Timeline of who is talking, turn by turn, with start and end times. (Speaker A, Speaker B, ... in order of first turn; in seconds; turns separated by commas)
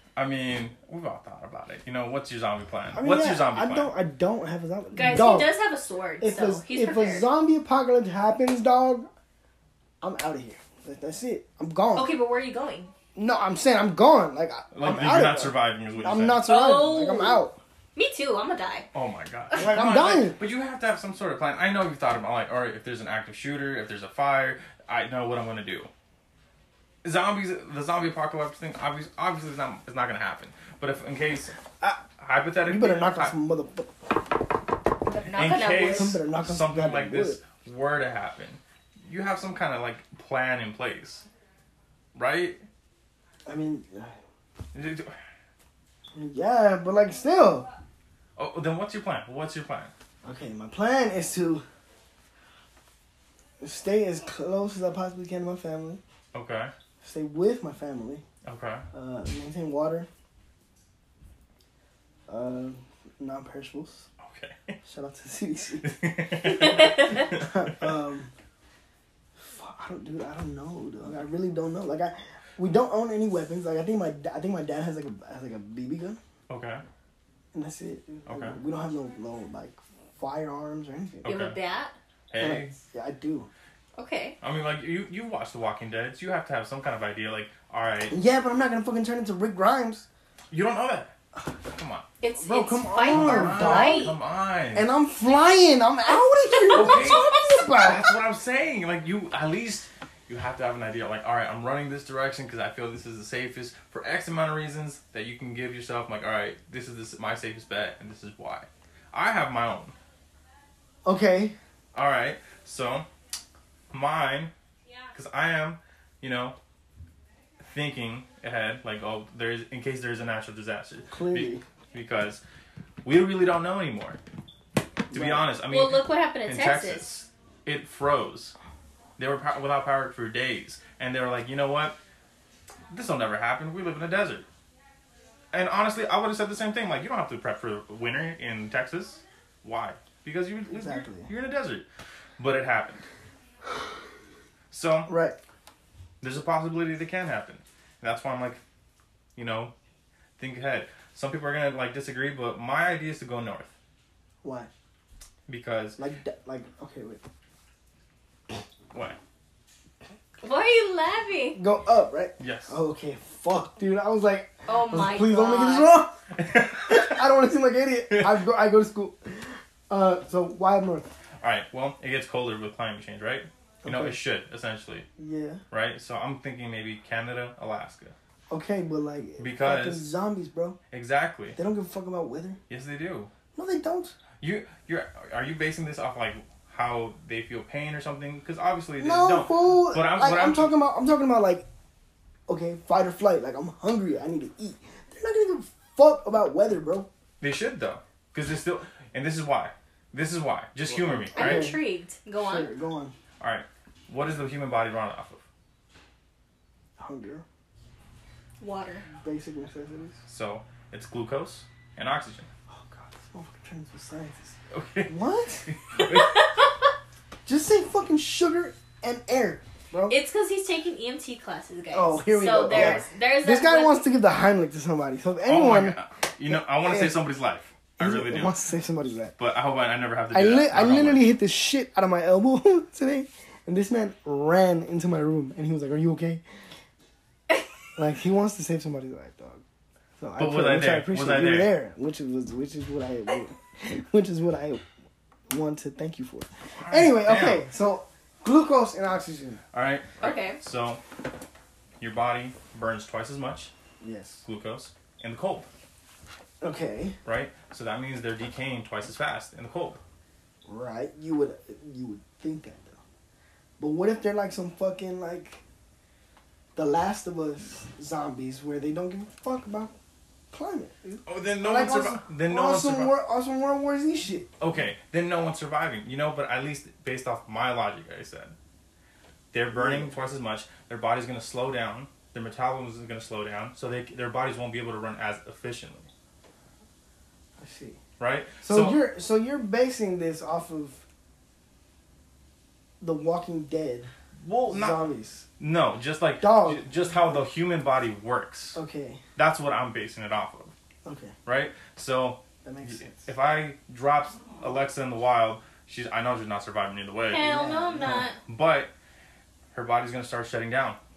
Speaker A: 0.1-3.9, Speaker B: 2.9-5.5, Speaker C: 4.9-7.2, Speaker B: 6.2-9.1, Speaker B: 10.0-12.1, Speaker C: 11.9-12.9, Speaker B: 13.2-17.6, Speaker A: 14.7-16.4, Speaker C: 16.5-17.4, Speaker C: 17.9-18.9, Speaker A: 18.9-25.9, Speaker B: 19.6-20.4, Speaker A: 27.0-31.6, Speaker A: 32.2-33.3, Speaker B: 32.6-34.0, Speaker C: 35.0-36.1, Speaker A: 35.3-41.2, Speaker B: 35.8-37.4, Speaker A: 42.1-42.6, Speaker B: 43.5-44.2, Speaker A: 44.7-45.1, Speaker B: 46.1-47.7, Speaker A: 48.4-49.9, Speaker B: 50.2-51.6, Speaker B: 53.6-56.0, Speaker A: 56.3-56.7, Speaker B: 57.0-58.2, Speaker A: 58.4-58.9, Speaker B: 58.9-60.1, Speaker B: 62.3-64.1, Speaker A: 64.2-64.8, Speaker B: 64.8-65.9, Speaker A: 65.8-67.9, Speaker B: 66.4-68.3, Speaker C: 66.5-67.3, Speaker B: 69.4-76.2, Speaker A: 76.5-76.8, Speaker B: 77.5-81.3, Speaker A: 78.3-78.6, Speaker A: 81.2-81.5, Speaker C: 81.2-81.9, Speaker A: 82.3-82.7, Speaker B: 82.4-83.5, Speaker C: 84.0-84.3, Speaker A: 84.4-88.1, Speaker B: 88.1-90.1, Speaker A: 90.5-91.1, Speaker A: 91.6-92.0, Speaker C: 92.2-94.2, Speaker B: 92.3-94.1, Speaker A: 93.0-94.9, Speaker B: 94.7-98.1, Speaker C: 96.5-97.2, Speaker A: 96.7-110.0, Speaker B: 111.0-111.6, Speaker A: 111.9-113.0, Speaker A: 113.9-114.5, Speaker A: 115.1-116.5, Speaker A: 117.6-122.4, Speaker B: 121.1-121.6, Speaker A: 123.0-124.2, Speaker A: 125.1-128.5, Speaker B: 125.1-125.5, Speaker C: 125.7-127.1, Speaker A: 129.2-132.0, Speaker A: 132.9-134.4, Speaker A: 135.5-141.8, Speaker B: 140.8-141.3, Speaker A: 142.4-143.0, Speaker A: 144.7-145.1, Speaker B: 145.1-145.4, Speaker A: 146.2-148.6, Speaker A: 149.3-149.7, Speaker A: 150.4-153.7, Speaker B: 154.4-154.7, Speaker A: 155.5-156.0, Speaker B: 156.0-157.2, Speaker A: 158.9-159.2, Speaker C: 160.4-161.6, Speaker B: 161.5-166.2, Speaker A: 162.4-162.8, Speaker C: 164.7-166.0, Speaker A: 166.3-167.2, Speaker B: 166.8-171.1, Speaker A: 168.1-168.4, Speaker A: 171.4-175.1, Speaker B: 173.8-174.2, Speaker B: 175.2-175.6, Speaker A: 175.7-178.1, Speaker B: 178.5-180.8, Speaker A: 179.4-180.1, Speaker A: 180.9-181.6, Speaker B: 181.6-182.6, Speaker A: 182.7-183.3, Speaker B: 183.5-184.2, Speaker A: 184.4-190.7, Speaker B: 189.0-191.7, Speaker B: 192.5-197.1, Speaker A: 197.4-201.7, Speaker B: 201.2-201.8, Speaker C: 201.3-202.7, Speaker B: 202.4-203.1, Speaker A: 203.4-205.4, Speaker B: 207.0-207.4, Speaker C: 208.6-209.1, Speaker B: 209.2-210.2, Speaker A: 210.3-212.5, Speaker B: 212.7-215.7, Speaker A: 214.7-215.1, Speaker A: 215.7-216.4, Speaker C: 216.0-216.7, Speaker B: 217.4-220.2, Speaker C: 220.1-224.0, Speaker B: 221.9-225.9, Speaker A: 222.7-223.0, Speaker A: 225.4-228.6, Speaker B: 226.5-227.1, Speaker B: 228.0-229.3, Speaker A: 229.4-231.3, Speaker B: 230.3-236.4, Speaker B: 237.9-239.6, Speaker B: 240.2-244.8, Speaker A: 240.4-241.7, Speaker B: 245.5-249.6, Speaker A: 246.8-247.6, Speaker A: 249.7-251.0, Speaker C: 250.2-250.6, Speaker A: 252.0-253.7, Speaker B: 254.0-254.4, Speaker A: 254.4-255.7, Speaker B: 256.6-257.1, Speaker A: 257.2-260.0, Speaker B: 260.7-263.0, Speaker B: 263.8-265.6, Speaker B: 266.7-269.9, Speaker B: 270.5-274.5, Speaker A: 271.3-273.1, Speaker A: 274.6-278.5, Speaker A: 279.5-286.1, Speaker B: 279.7-280.2, Speaker B: 287.6-288.0, Speaker A: 288.2-289.0, Speaker B: 288.6-291.0, Speaker B: 293.0-294.1, Speaker A: 294.4-295.0, Speaker B: 294.7-295.4, Speaker A: 295.6-298.8, Speaker B: 296.4-297.4, Speaker B: 298.7-299.2, Speaker A: 299.4-300.7, Speaker B: 301.0-301.4, Speaker A: 301.4-307.5, Speaker B: 302.6-303.3, Speaker C: 307.3-308.4, Speaker B: 307.4-308.3, Speaker A: 308.0-308.9, Speaker A: 309.7-311.0